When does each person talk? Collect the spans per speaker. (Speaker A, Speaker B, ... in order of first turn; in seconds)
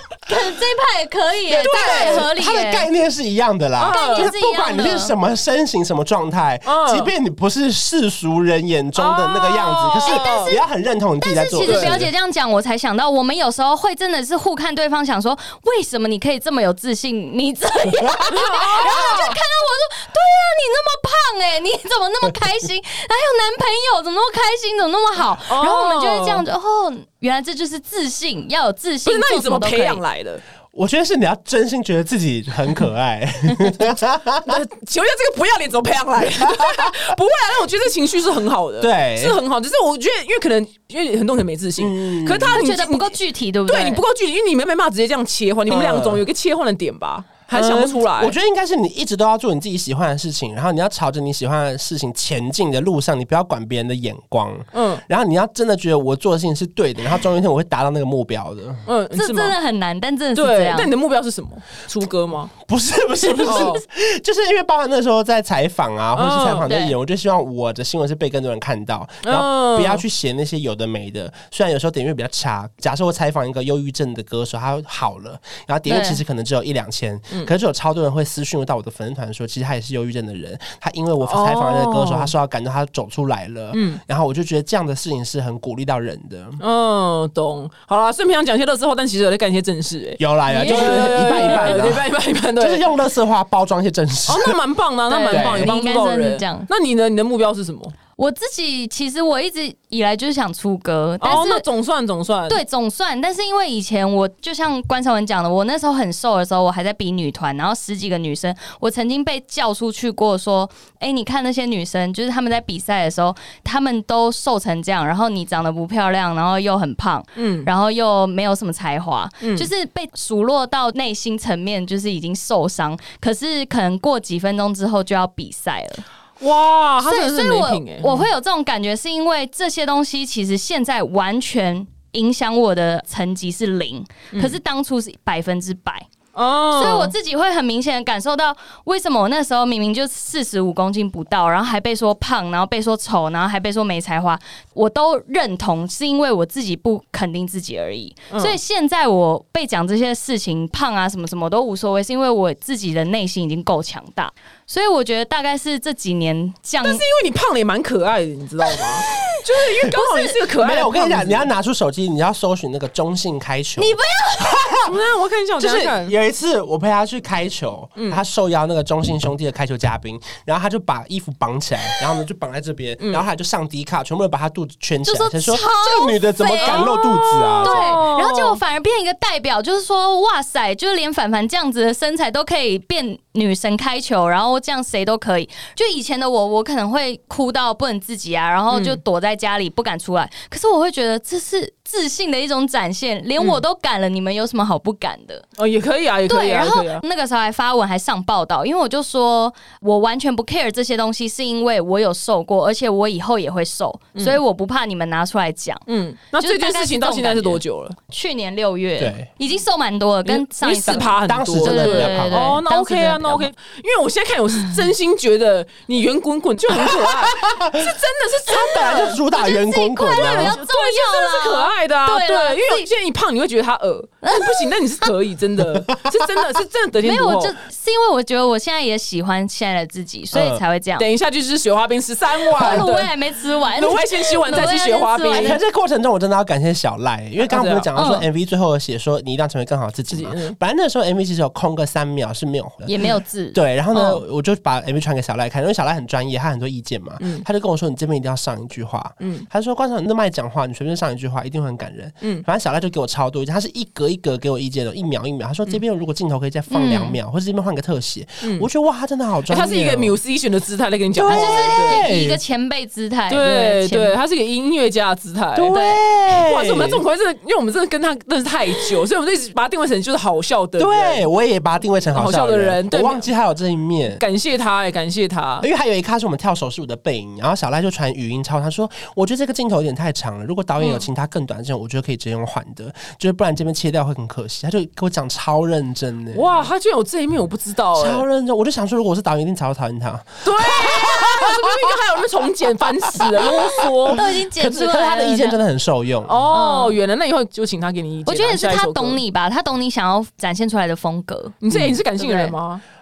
Speaker A: 0.2-2.9, 3.9-5.1, 10.0-10.6, 11.2-30.0, 42.5-44.0, 59.1-60.9, 63.3-63.8, 66.6-66.9, 75.9-76.2, 90.5-91.9, 95.1-96.7, 98.2-101.6, 102.5-126.0, 127.0-136.1, 136.7-157.0, 158.7-160.4, 163.8-164.6, 175.0-195.4, 196.3-205.8, 206.4-213.5, 218.8-222.9, 224.2-225.1, 227.0-231.1, 232.6-235.6, 237.9-238.2, 242.8-243.6, 256.7-257.2, 261.2-264.2, 265.7-266.0, 293.5-295.6, 296.5-297.0, 298.3-301.6, 302.1-302.5
Speaker B: 1.5-2.3, 3.8-4.3, 6.7-7.1, 9.0-10.6, 11.6-12.0, 18.3-19.4, 25.5-26.4, 29.0-30.4, 34.5-48.4, 54.7-55.0, 58.9-59.5, 60.3-62.5, 63.4-63.8, 66.2-66.7, 69.2-70.0, 81.2-82.3, 83.7-84.0, 86.6-92.8, 94.2-97.9, 101.2-102.6, 117.3-117.7, 119.4-119.7, 126.4-128.3, 134.3-134.6, 136.3-137.1, 148.3-148.6, 156.8-161.5, 164.8-166.1, 167.9-168.2, 176.6-178.6, 188.7-189.0, 193.4-193.6, 195.6-197.0, 205.9-208.0, 210.3-219.2, 220.2-227.5, 231.0-233.1, 233.8-235.6, 237.4-237.9, 240.1-240.6, 243.9-244.2, 247.2-247.4, 249.2-249.5, 259.5-262.1, 263.3-265.8, 266.3-271.3, 272.1-273.3, 274.2-275.7, 280.8-281.0, 286.3-288.2, 290.4-294.3, 296.2-299.2, 301.6-302.8
Speaker C: 1.7-12.1, 18.0-19.2, 30.7-34.6, 36.4-36.9, 38.8-39.4, 41.8-42.7, 45.7-46.2, 47.5-58.8, 62.6-86.6, 90.2-94.6, 95.3-95.7, 160.5-165.0, 165.6-178.0, 209.0-209.3, 210.8-212.5, 216.7-220.6, 230.3-230.6, 232.6-232.9, 235.3-242.9, 243.5-260.2, 261.2-262.4, 265.5-267.0, 270.8-274.2, 275.6-286.7, 287.9-291.9, 293.1-296.5, 301.7-302.0